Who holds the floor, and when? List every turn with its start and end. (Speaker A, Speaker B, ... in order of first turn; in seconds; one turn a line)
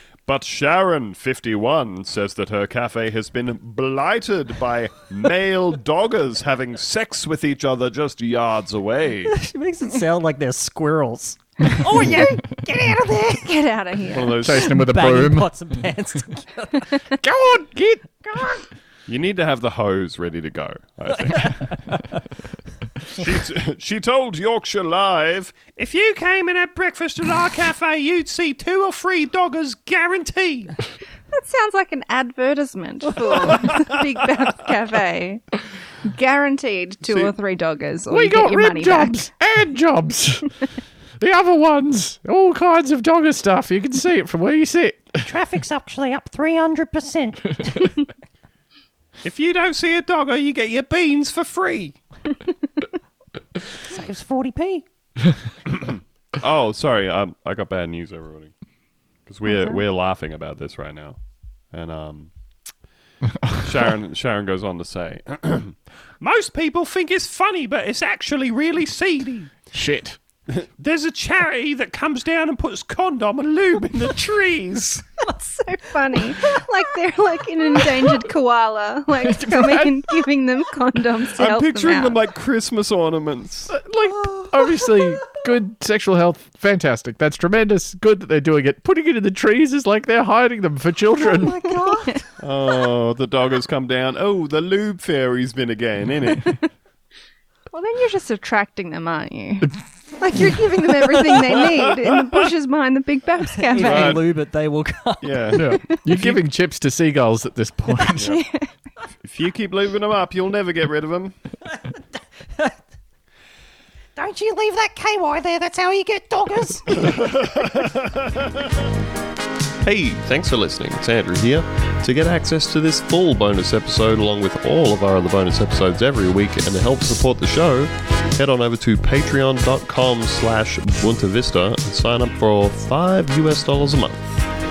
Speaker A: 0.3-9.4
Speaker B: 9.3-13.6
Speaker C: 12.0-12.3
Speaker C: 13.3-14.5
Speaker A: 14.1-14.7
Speaker D: 14.4-15.5
Speaker B: 14.7-17.0
Speaker D: 17.2-18.5
Speaker A: 19.1-21.7
Speaker B: 21.5-22.1
Speaker A: 23.1-30.7
Speaker C: 31.3-39.3
Speaker A: 33.3-33.7
Speaker A: 37.0-37.3
Speaker D: 38.1-40.5
Speaker D: 41.2-45.3
Speaker B: 45.2-48.0
Speaker A: 49.2-52.0
Speaker B: 53.8-54.9
Speaker A: 55.7-58.5
Speaker A: 59.3-61.2
Speaker B: 59.5-59.8
Speaker A: 61.7-62.3
Speaker A: 63.5-69.5
Speaker D: 69.7-70.2
Speaker A: 70.5-75.0
Speaker C: 75.2-82.2
Speaker D: 79.2-80.0
Speaker A: 81.3-83.7
Speaker D: 83.7-91.6
Speaker B: 84.2-85.4
Speaker B: 91.2-92.3
Speaker C: 91.9-92.2
Speaker A: 92.4-96.5
Speaker C: 97.7-104.2
Speaker B: 103.5-105.5
Speaker A: 103.8-104.3
Speaker A: 105.2-106.4
Speaker D: 105.5-108.4
Speaker C: 108.2-108.7
Speaker A: 109.2-111.3
Speaker B: 111.8-112.8
Speaker B: 114.2-117.8
Speaker A: 117.1-118.5
Speaker A: 119.8-134.5